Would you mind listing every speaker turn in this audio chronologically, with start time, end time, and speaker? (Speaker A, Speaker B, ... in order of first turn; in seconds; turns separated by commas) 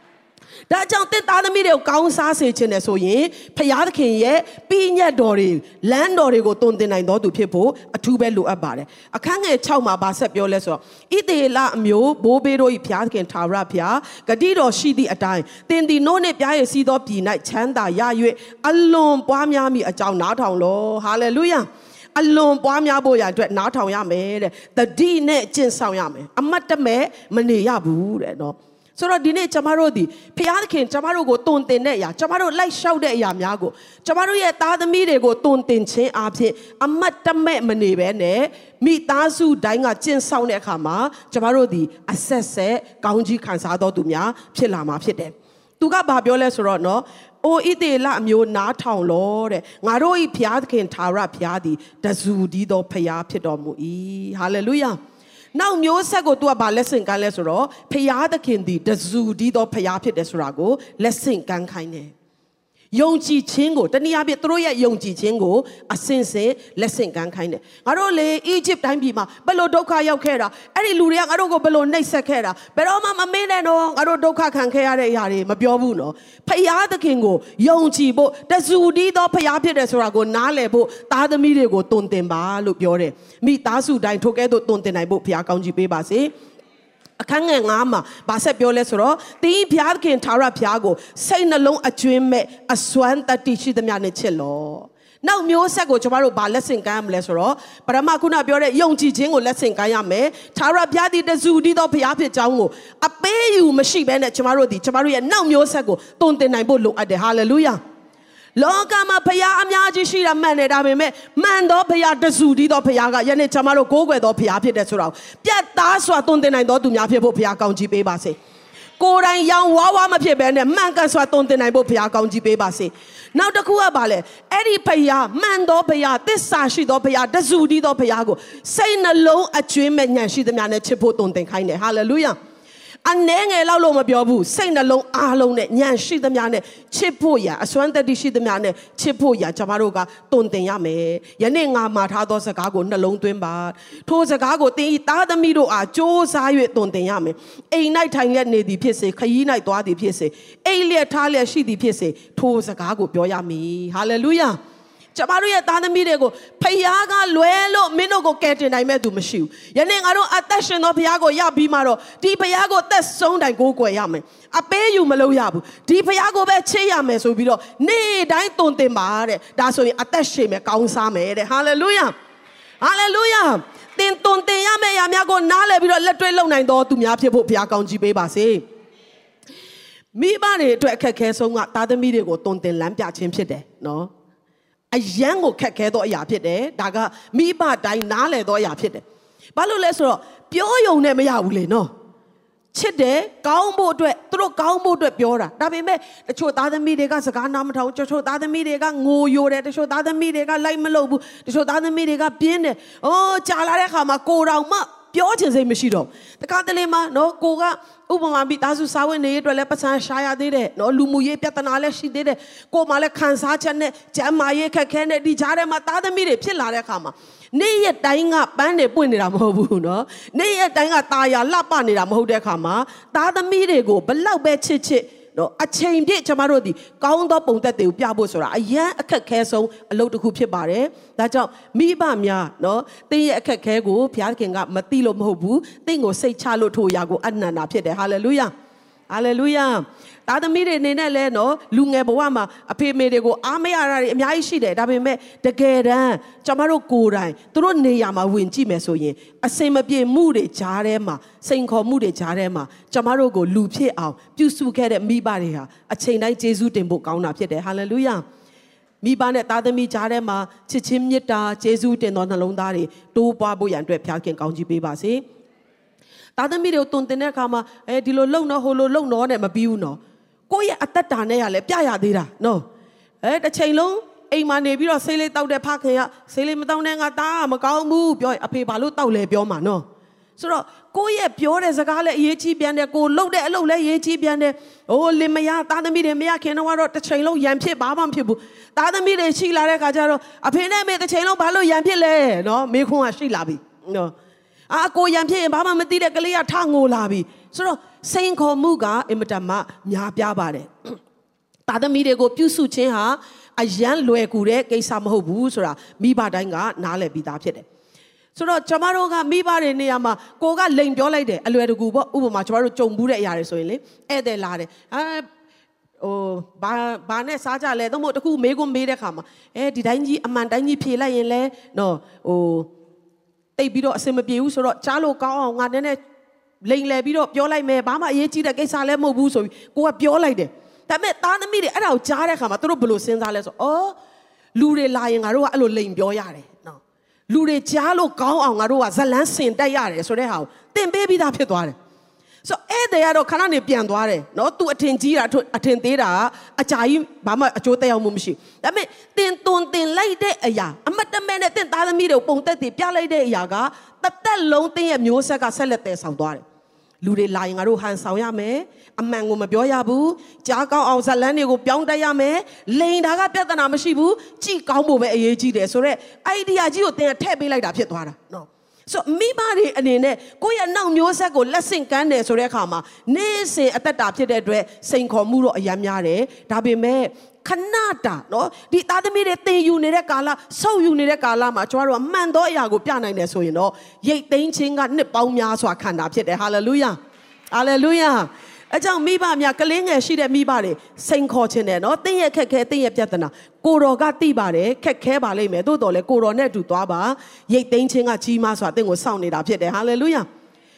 Speaker A: 0.7-55.0, Speaker A: 55.5-62.1, Speaker A: 62.9-86.3, Speaker A: 87.2-107.8, Speaker A: 108.5-118.3, Speaker A: 119.0-132.3, Speaker A: 133.0-154.6, Speaker A: 155.1-172.1, Speaker A: 172.8-178.6, Speaker A: 180.1-184.1, Speaker A: 184.9-189.0, Speaker A: 189.6-191.9, Speaker A: 192.7-238.5, Speaker A: 239.1-258.2, Speaker A: 259.0-265.2, Speaker A: 266.4-272.6, Speaker A: 273.2-279.8, Speaker A: 280.4-294.1, Speaker A: 294.7-301.0, Speaker A: 301.7-307.6, Speaker A: 308.3-315.3, Speaker A: 316.0-322.7, Speaker A: 323.6-326.0, Speaker A: 326.6-333.9, Speaker A: 334.5-341.7, Speaker A: 342.4-356.4, Speaker A: 357.0-387.0, Speaker A: 387.5-400.2